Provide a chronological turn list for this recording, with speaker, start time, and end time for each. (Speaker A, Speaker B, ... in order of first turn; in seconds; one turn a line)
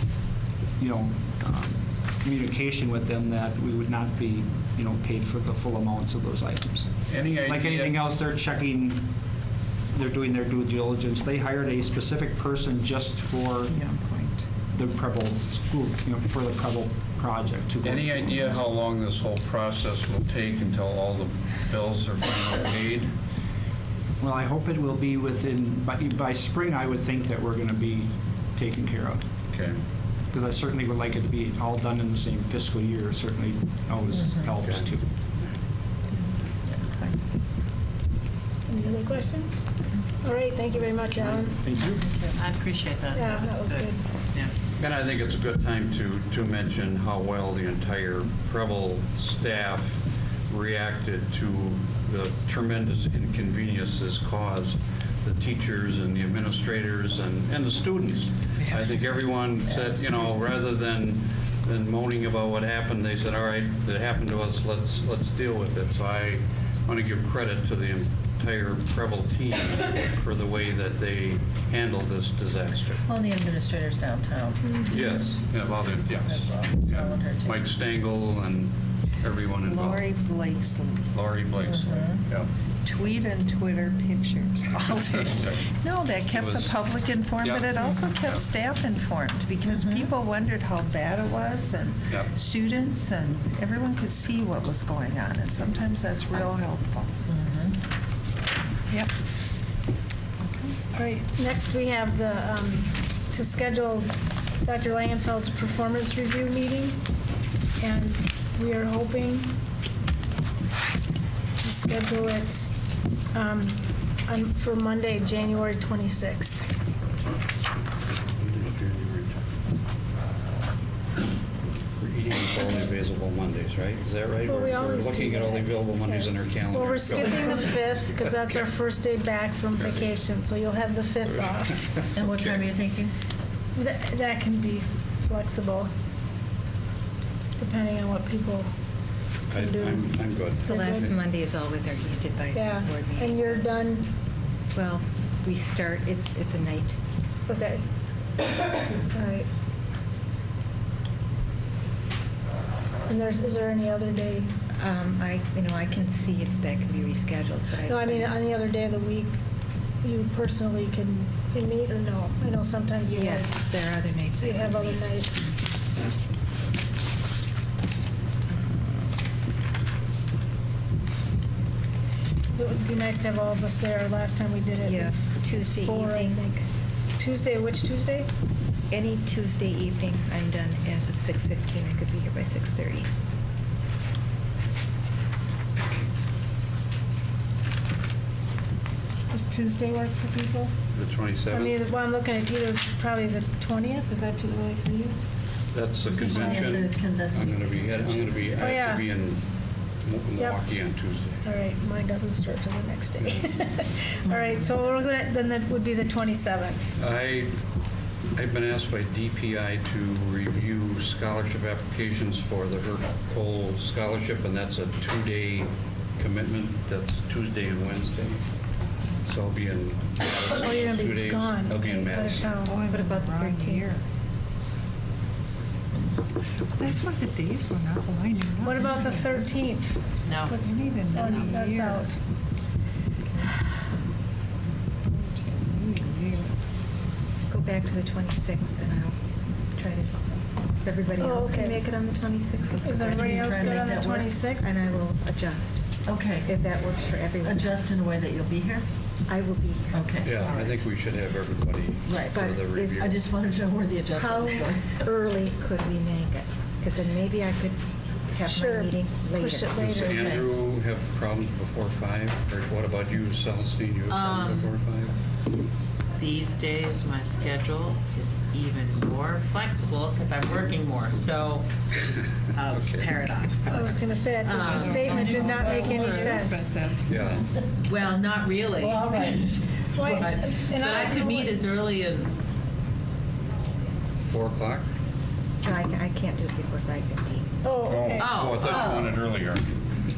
Speaker A: 0.8-9.1
Speaker B: 7.1-8.0
Speaker A: 9.9-13.8
Speaker C: 13.7-14.5
Speaker A: 14.7-18.6
Speaker B: 17.8-23.1
Speaker A: 24.2-29.2
Speaker B: 29.5-29.8
Speaker A: 30.3-35.0
Speaker B: 34.6-34.9
Speaker D: 36.3-37.2
Speaker E: 38.7-39.6
Speaker E: 40.2-41.7
Speaker A: 41.6-42.1
Speaker C: 42.0-42.3
Speaker F: 42.4-44.5
Speaker E: 43.1-44.0
Speaker B: 44.8-73.0
Speaker D: 73.1-74.8
Speaker B: 74.9-80.2
Speaker D: 76.2-77.7
Speaker C: 79.7-81.1
Speaker B: 81.1-82.5
Speaker D: 81.6-82.2
Speaker C: 82.8-97.2
Speaker B: 85.1-85.7
Speaker B: 86.3-88.5
Speaker D: 89.7-90.1
Speaker D: 97.3-97.8
Speaker E: 100.9-104.1
Speaker E: 104.6-107.0
Speaker E: 107.8-109.5
Speaker E: 111.6-112.7
Speaker E: 113.3-116.7
Speaker B: 118.3-119.4
Speaker B: 122.0-128.7
Speaker E: 124.5-131.8
Speaker B: 129.8-130.1
Speaker B: 131.9-132.6
Speaker D: 132.2-133.1
Speaker E: 133.8-135.9
Speaker E: 137.6-138.7
Speaker B: 139.5-141.2
Speaker E: 139.5-140.2
Speaker G: 140.7-143.8
Speaker E: 140.7-141.1
Speaker E: 142.6-144.1
Speaker G: 144.7-147.0
Speaker E: 147.5-147.8
Speaker E: 149.1-149.5
Speaker E: 153.1-154.5
Speaker G: 154.8-158.5
Speaker E: 157.9-159.4
Speaker E: 160.0-163.6
Speaker G: 163.1-165.3
Speaker E: 164.4-165.5
Speaker E: 172.5-176.6
Speaker G: 174.7-176.6
Speaker E: 177.2-178.3
Speaker G: 178.9-183.1
Speaker E: 189.3-190.7
Speaker B: 190.9-191.8
Speaker E: 191.5-195.2
Speaker B: 195.7-199.4
Speaker D: 196.1-198.5
Speaker E: 198.6-199.1
Speaker B: 200.0-201.4
Speaker E: 201.4-206.9
Speaker B: 203.2-203.4
Speaker D: 204.3-204.6
Speaker B: 207.0-207.6
Speaker B: 208.3-218.4
Speaker B: 219.3-222.6
Speaker E: 220.6-222.8
Speaker C: 222.6-224.0
Speaker G: 222.8-223.9
Speaker C: 226.8-229.7
Speaker E: 228.6-232.2
Speaker F: 230.3-230.6
Speaker C: 230.5-232.1
Speaker F: 231.1-231.6
Speaker C: 235.1-236.6
Speaker G: 237.5-239.2
Speaker G: 239.7-240.1
Speaker G: 240.8-248.0
Speaker E: 241.2-241.8
Speaker E: 242.8-244.8
Speaker D: 243.0-244.4
Speaker D: 246.1-246.5
Speaker D: 247.4-248.9
Speaker G: 249.3-250.8
Speaker D: 249.9-250.8
Speaker B: 250.2-253.2
Speaker D: 252.1-254.9
Speaker G: 252.3-253.1
Speaker G: 254.1-260.1
Speaker E: 258.5-260.2
Speaker B: 259.8-265.1
Speaker D: 260.0-260.5
Speaker F: 264.1-264.7
Speaker F: 266.2-276.3
Speaker B: 272.6-273.1
Speaker E: 273.6-276.7
Speaker C: 274.6-277.4
Speaker D: 275.1-275.7
Speaker B: 277.1-277.4
Speaker F: 277.9-278.8
Speaker D: 278.1-281.1
Speaker E: 278.1-281.7
Speaker F: 280.7-282.3
Speaker B: 284.3-284.9
Speaker G: 285.6-287.5
Speaker E: 287.6-288.4
Speaker B: 287.9-289.7
Speaker F: 288.2-288.9
Speaker D: 288.6-289.2